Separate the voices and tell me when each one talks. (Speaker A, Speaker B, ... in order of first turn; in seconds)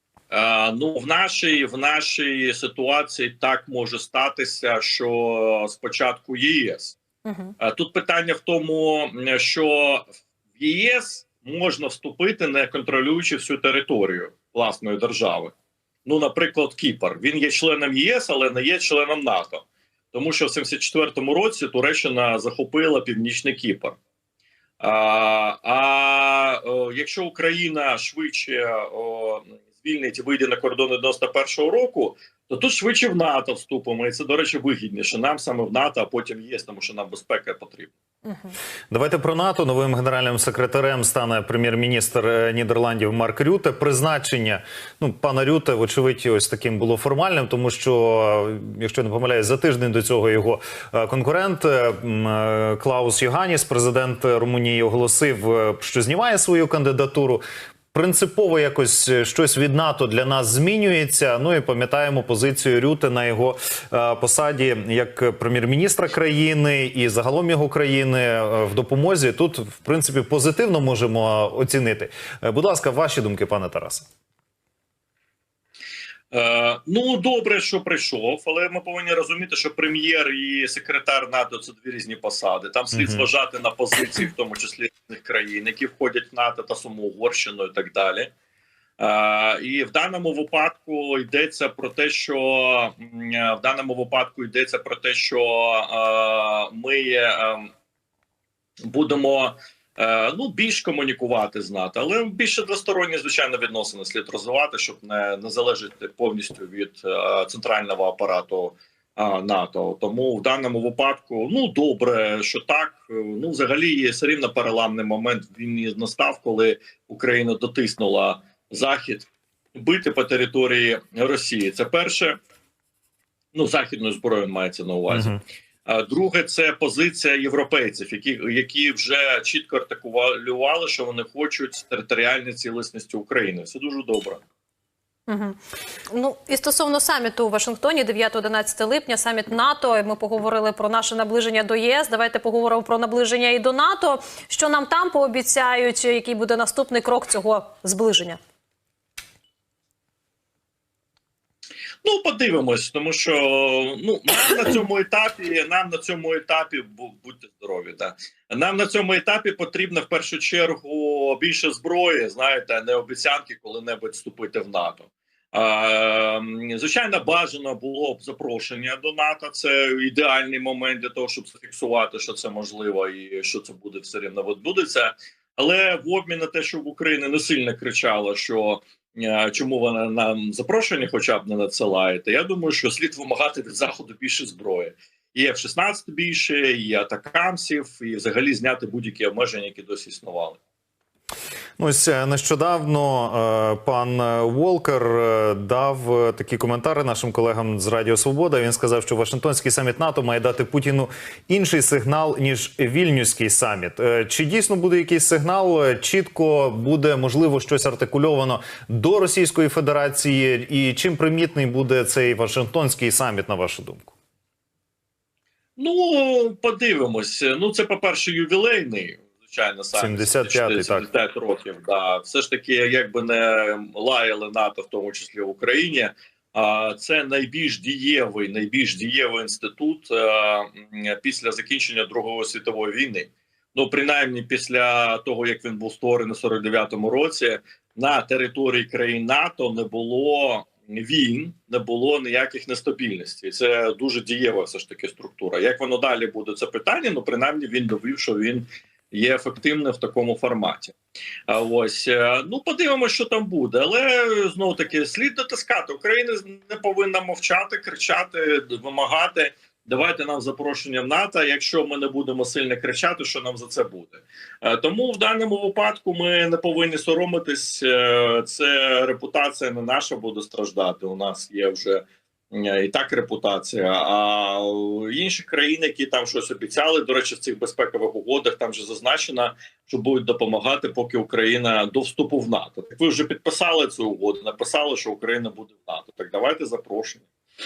Speaker A: 0.3-7.0, 7.6-15.5, 16.0-24.0, 24.8-37.9, 76.3-88.3, 89.0-97.7, 98.8-122.4, 123.5-134.4, 152.0-190.6, 215.8-250.9, 251.5-287.3
Speaker B: 7.2-7.5, 38.2-38.5, 135.3-135.6, 136.1-148.4
Speaker C: 38.9-74.1, 82.9-83.2, 125.1-125.4, 191.8-214.1, 219.9-221.1